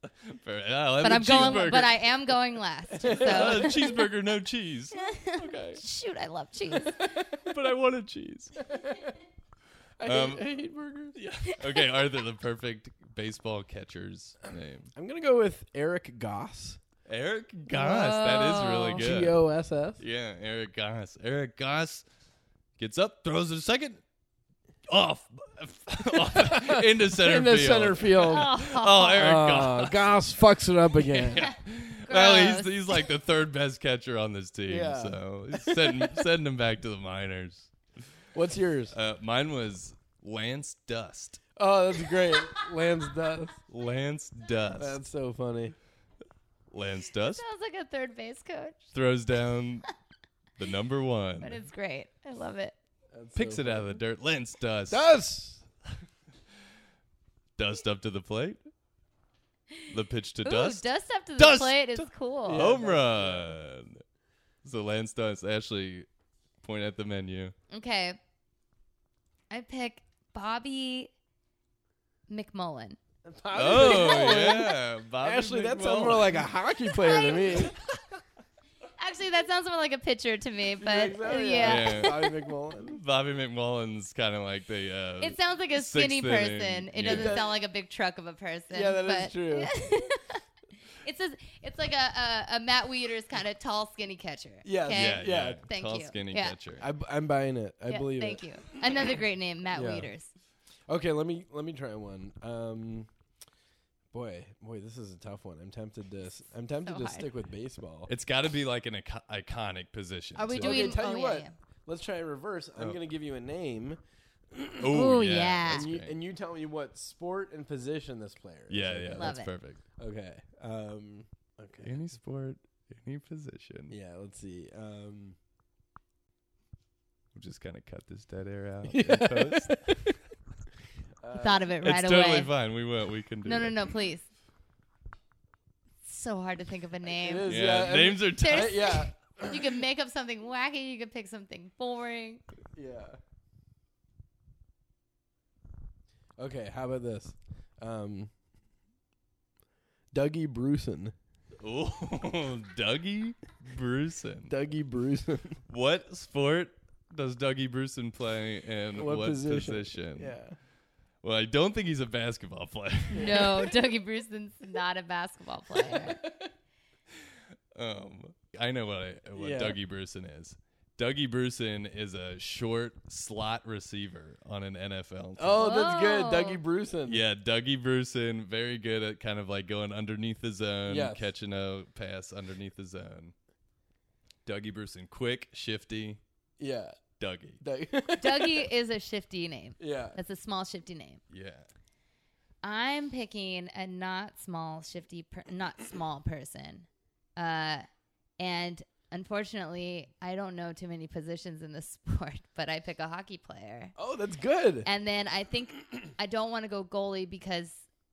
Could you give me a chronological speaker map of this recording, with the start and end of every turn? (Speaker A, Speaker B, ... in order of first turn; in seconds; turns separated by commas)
Speaker A: 0.2-2.2, Speaker B: 1.0-4.0, Speaker C: 2.9-3.8, Speaker A: 3.0-5.8, Speaker B: 4.9-7.0, Speaker A: 6.9-8.6, Speaker C: 8.6-9.2, Speaker C: 10.0-11.2, Speaker A: 10.0-10.4, Speaker A: 11.1-14.9, Speaker B: 11.5-11.8, Speaker C: 14.9-16.8, Speaker A: 17.1-19.4, Speaker B: 17.7-19.0, Speaker C: 18.9-20.0, Speaker A: 20.0-22.1, Speaker A: 22.8-24.0, Speaker A: 24.9-30.1, Speaker C: 26.2-28.5, Speaker B: 28.2-29.3, Speaker C: 29.2-31.5, Speaker A: 31.0-37.7, Speaker B: 32.1-33.0, Speaker C: 34.7-36.2, Speaker C: 38.3-39.0, Speaker A: 38.9-41.4, Speaker C: 41.5-43.6, Speaker A: 43.7-45.0, Speaker C: 44.8-45.7, Speaker A: 46.7-47.4, Speaker B: 47.3-48.9, Speaker A: 48.9-49.8, Speaker A: 50.6-51.6, Speaker B: 51.4-52.7, Speaker C: 53.1-54.0, Speaker A: 53.3-55.1, Speaker C: 54.9-55.6, Speaker A: 57.6-58.6, Speaker B: 59.7-62.7, Speaker A: 59.9-60.9, Speaker A: 61.4-64.0, Speaker C: 62.5-63.5, Speaker A: 64.6-66.1, Speaker A: 66.6-67.5, Speaker B: 67.7-68.2, Speaker B: 69.5-71.1, Speaker B: 72.3-73.0, Speaker C: 73.2-77.7, Speaker A: 73.5-76.5, Speaker B: 73.7-74.5, Speaker B: 76.9-77.8, Speaker B: 79.0-82.2, Speaker C: 80.8-83.0, Speaker A: 81.6-87.4, Speaker B: 85.2-90.4, Speaker C: 87.0-87.5, Speaker C: 88.7-89.7, Speaker B: 91.0-96.6, Speaker C: 94.6-95.6, Speaker A: 94.9-96.9, Speaker C: 96.8-98.4, Speaker B: 97.9-100.3, Speaker C: 99.7-100.1, Speaker C: 100.9-103.1, Speaker C: 104.1-108.1, Speaker B: 106.8-107.3, Speaker A: 108.1-110.9, Speaker B: 110.3-111.5, Speaker C: 110.5-114.0, Speaker C: 114.5-115.0, Speaker A: 114.8-116.1, Speaker B: 114.9-115.9, Speaker C: 115.7-119.4, Speaker A: 118.7-119.8, Speaker B: 119.2-119.5, Speaker C: 120.0-122.0, Speaker A: 121.8-123.9, Speaker C: 123.9-125.4, Speaker A: 127.3-129.9, Speaker C: 128.9-130.1, Speaker C: 131.2-131.7, Speaker B: 131.3-132.5, Speaker A: 131.8-133.8, Speaker B: 133.4-134.3, Speaker B: 136.0-137.5, Speaker C: 137.0-139.8, Speaker A: 137.4-139.0, Speaker B: 138.3-142.4, Speaker C: 142.7-143.2, Speaker C: 146.4-148.3, Speaker C: 150.1-151.1, Speaker A: 151.6-154.5, Speaker C: 154.5-155.6, Speaker A: 155.7-160.4, Speaker C: 158.9-160.6, Speaker A: 161.2-163.4, Speaker B: 163.1-166.2, Speaker C: 163.2-163.7, Speaker C: 165.8-166.5, Speaker A: 167.7-175.7, Speaker C: 169.3-169.8, Speaker C: 175.4-177.2, Speaker B: 175.6-176.6, Speaker A: 177.1-183.3, Speaker C: 180.8-181.3, Speaker A: 184.4-186.2, Speaker C: 186.6-187.0, Speaker A: 187.2-187.6, Speaker C: 187.6-188.7, Speaker B: 188.2-191.2, Speaker C: 189.8-190.2, Speaker A: 191.3-191.7, Speaker B: 192.6-197.8, Speaker B: 198.4-203.9, Speaker C: 204.0-204.9, Speaker B: 204.8-207.9